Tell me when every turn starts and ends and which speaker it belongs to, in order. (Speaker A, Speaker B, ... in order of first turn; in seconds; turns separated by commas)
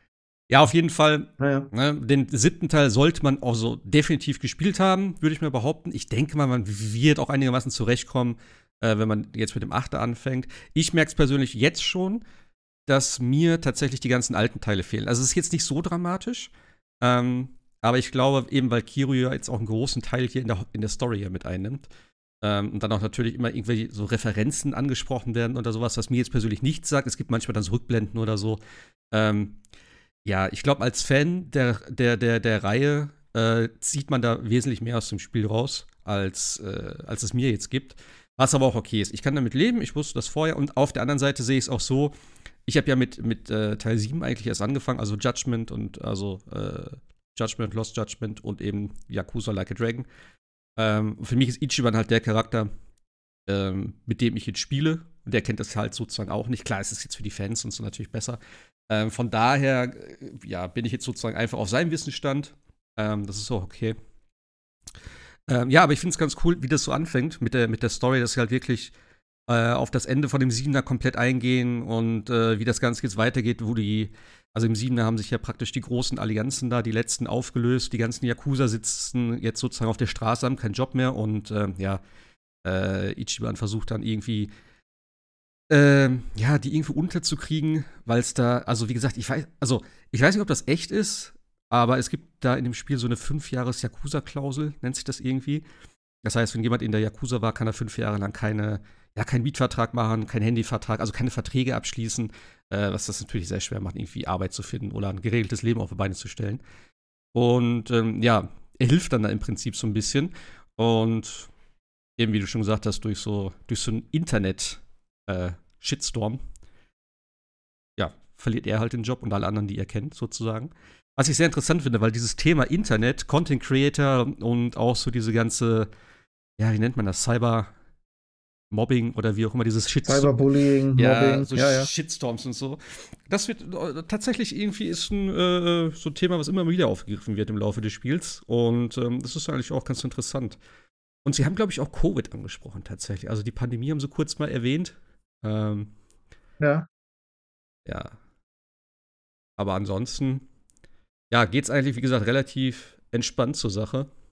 Speaker A: 0.5-12.2, Speaker B: 1.4-1.7, Speaker A: 12.9-16.5, Speaker A: 17.0-21.9, Speaker A: 22.4-28.6, Speaker A: 29.1-29.6, Speaker A: 30.2-42.1, Speaker A: 42.7-50.1, Speaker A: 50.8-52.7, Speaker A: 53.5-58.4, Speaker A: 58.9-64.0, Speaker A: 65.5-68.9, Speaker A: 69.5-82.0, Speaker A: 82.6-84.5, Speaker A: 85.7-95.7, Speaker A: 96.2-106.6, Speaker A: 107.3-111.5, Speaker A: 112.2-116.4, Speaker A: 118.0-125.9, Speaker A: 126.6-127.7, Speaker A: 128.7-130.4, Speaker B: 130.1-131.9, Speaker A: 130.9-140.6, Speaker A: 141.2-145.9, Speaker B: 146.6-146.9, Speaker A: 147.9-148.2, Speaker A: 149.6-150.4, Speaker A: 151.3-154.1